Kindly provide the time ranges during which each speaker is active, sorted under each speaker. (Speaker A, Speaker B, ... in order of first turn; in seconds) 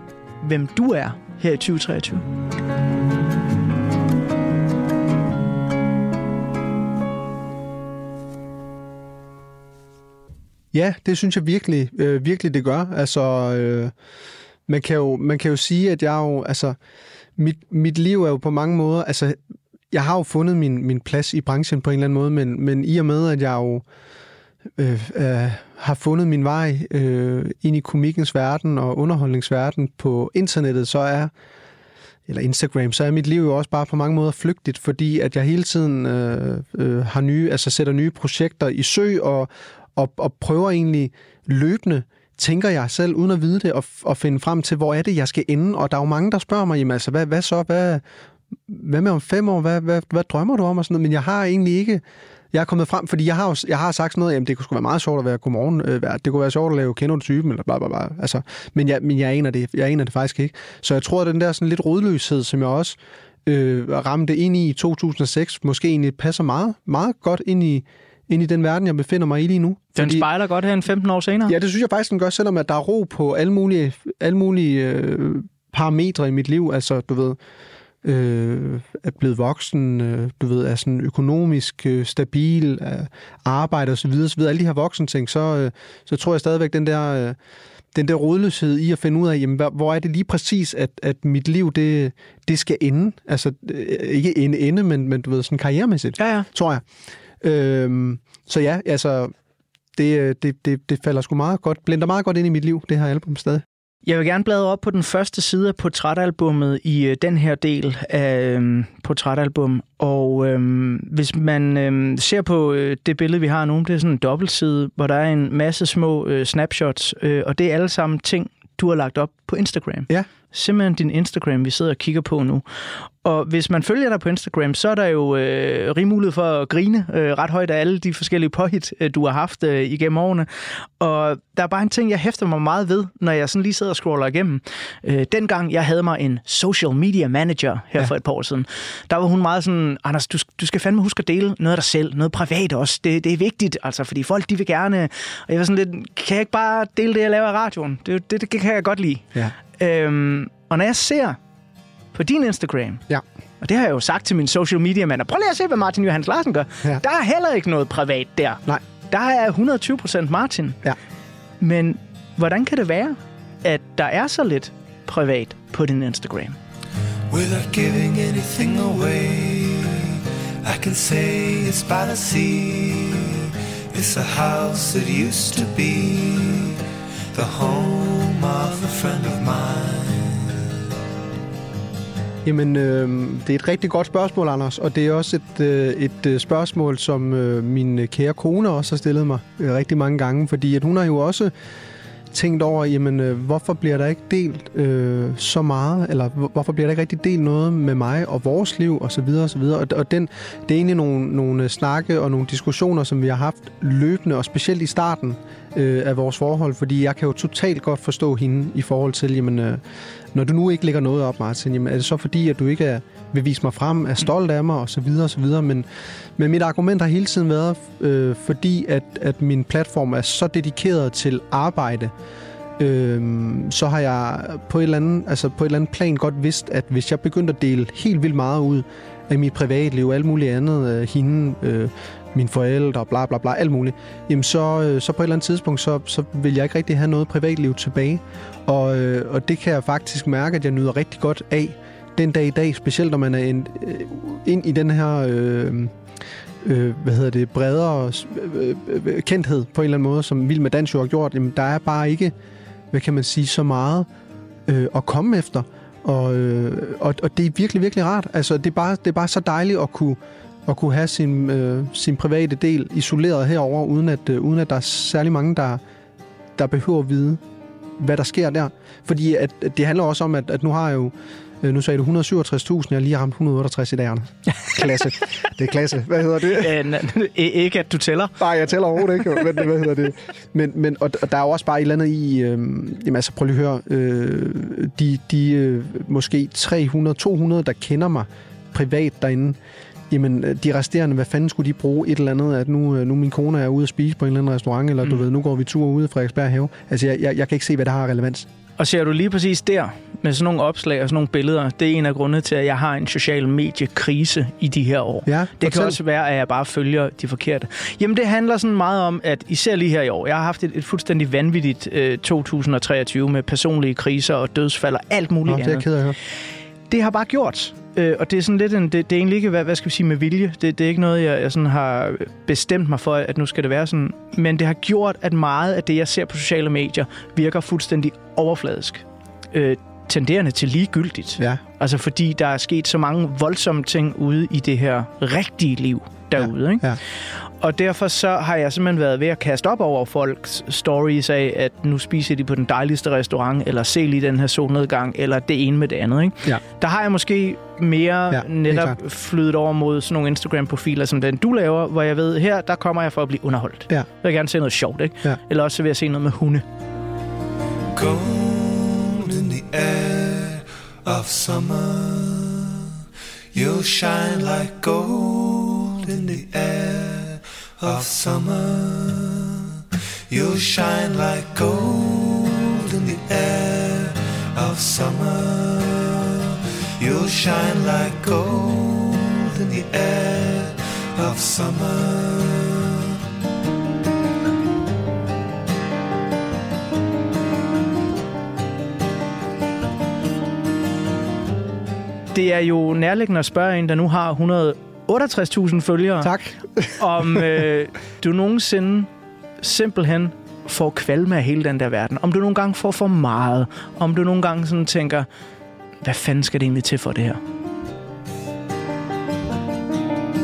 Speaker A: 0.4-2.2, 70.0-71.5, 96.2-96.5, 104.0-122.7, 123.2-151.4, 152.1-153.0, 153.6-160.8, 161.6-166.6, 276.5-278.4, 298.8-315.9, 316.9-337.0, 337.6-356.6, 392.3-396.3, 397.0-399.1, 399.6-405.3, 406.0-407.4
Speaker B: 10.7-13.9, 14.7-16.8, 17.4-19.4, 19.9-23.9, 24.8-31.3, 32.3-48.0, 48.7-70.2, 71.5-77.4, 78.0-87.4, 87.9-96.8, 97.4-99.3, 100.0-103.6, 182.4-191.5, 192.3-209.8, 210.3-222.1, 222.8-245.9, 246.6-252.3, 252.9-254.1, 254.7-265.8, 266.6-267.4, 268.0-276.8, 278.4-289.6, 290.1-298.5, 305.2-306.0, 315.5-316.2, 336.4-337.0, 348.3-349.0, 396.2-397.6
Speaker C: 167.3-176.8, 177.3-180.7, 357.9-362.9, 363.5-383.1